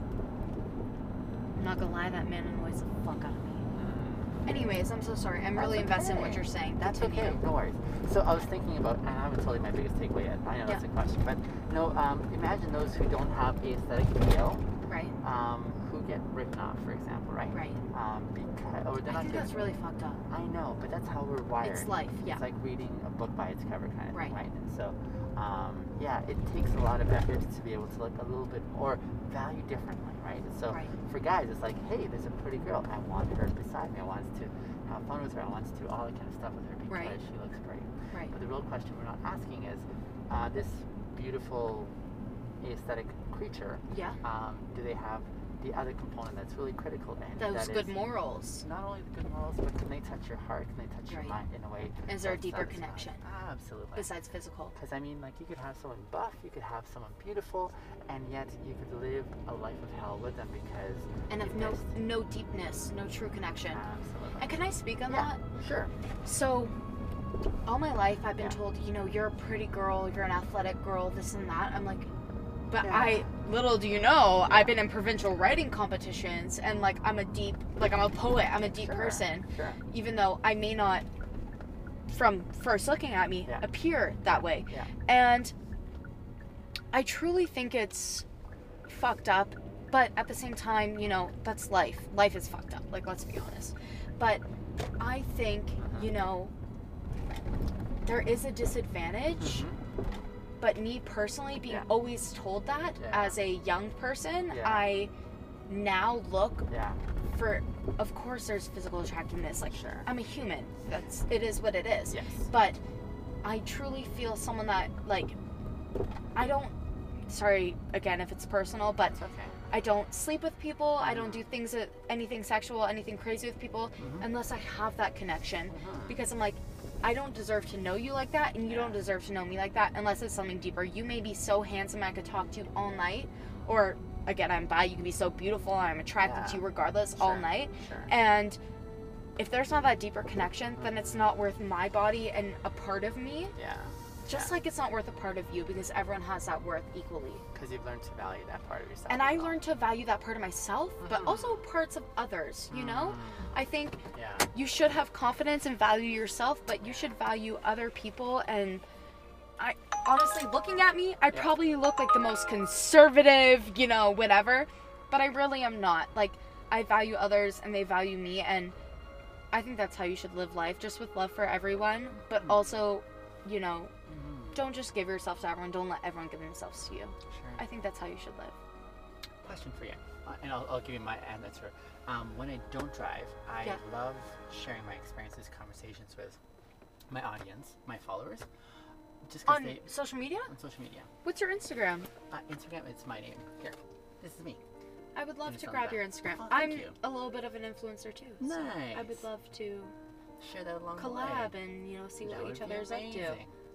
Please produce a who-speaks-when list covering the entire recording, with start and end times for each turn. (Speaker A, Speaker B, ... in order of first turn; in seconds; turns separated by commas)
Speaker A: 1.6-3.7, Speaker B: 3.7-4.4, Speaker A: 4.5-7.4, Speaker B: 5.5-14.7, Speaker A: 14.8-15.1, Speaker B: 15.2-19.6, Speaker A: 17.5-17.8, Speaker A: 19.0-20.2, Speaker B: 20.3-41.9, Speaker A: 21.6-22.4, Speaker A: 36.9-37.2, Speaker B: 42.6-48.0, Speaker A: 43.9-44.2, Speaker A: 47.4-48.6, Speaker B: 48.6-54.1, Speaker A: 51.1-51.4, Speaker A: 52.1-53.2, Speaker A: 53.9-54.7, Speaker B: 54.7-61.9, Speaker A: 61.3-63.8, Speaker B: 63.7-64.5, Speaker A: 64.4-65.4, Speaker B: 65.0-65.9, Speaker A: 66.2-66.7, Speaker A: 67.7-72.1, Speaker A: 72.7-81.0, Speaker B: 72.8-73.3, Speaker B: 74.4-74.8, Speaker B: 78.6-79.8, Speaker A: 82.1-85.5, Speaker B: 84.4-84.9, Speaker A: 86.9-88.2, Speaker A: 88.9-94.4, Speaker A: 95.0-96.5, Speaker B: 95.8-96.1, Speaker A: 98.0-99.6, Speaker B: 99.4-99.8, Speaker A: 100.6-105.1, Speaker B: 103.0-103.4, Speaker B: 104.5-104.9, Speaker A: 105.7-106.7, Speaker B: 106.7-107.0, Speaker A: 107.2-112.8, Speaker B: 109.7-110.1, Speaker B: 112.1-112.5, Speaker A: 113.4-115.3, Speaker A: 116.3-116.7, Speaker A: 117.2-119.2, Speaker B: 119.1-119.5, Speaker A: 119.7-138.6, Speaker B: 121.0-121.4, Speaker B: 124.0-124.3, Speaker B: 125.7-126.2, Speaker B: 128.6-129.0, Speaker B: 136.2-136.6, Speaker B: 137.2-138.1, Speaker A: 139.4-143.5, Speaker B: 140.8-141.3, Speaker B: 143.6-144.5, Speaker A: 144.2-147.4, Speaker B: 147.5-149.6, Speaker A: 149.1-154.0, Speaker B: 151.0-151.6, Speaker B: 152.7-153.5, Speaker B: 154.1-154.5, Speaker A: 154.5-158.8, Speaker B: 156.8-157.2, Speaker A: 159.6-168.7, Speaker A: 169.5-173.9, Speaker B: 172.1-172.8, Speaker B: 174.1-174.7, Speaker A: 174.5-178.6, Speaker B: 177.3-177.6, Speaker B: 179.4-186.4, Speaker B: 187.1-188.5, Speaker B: 189.2-191.1, Speaker A: 189.4-190.5, Speaker A: 191.2-192.1, Speaker B: 192.3-194.6, Speaker A: 195.1-199.9, Speaker B: 195.4-196.9, Speaker B: 198.4-199.2, Speaker B: 200.4-201.6, Speaker A: 200.9-203.4, Speaker B: 202.2-203.6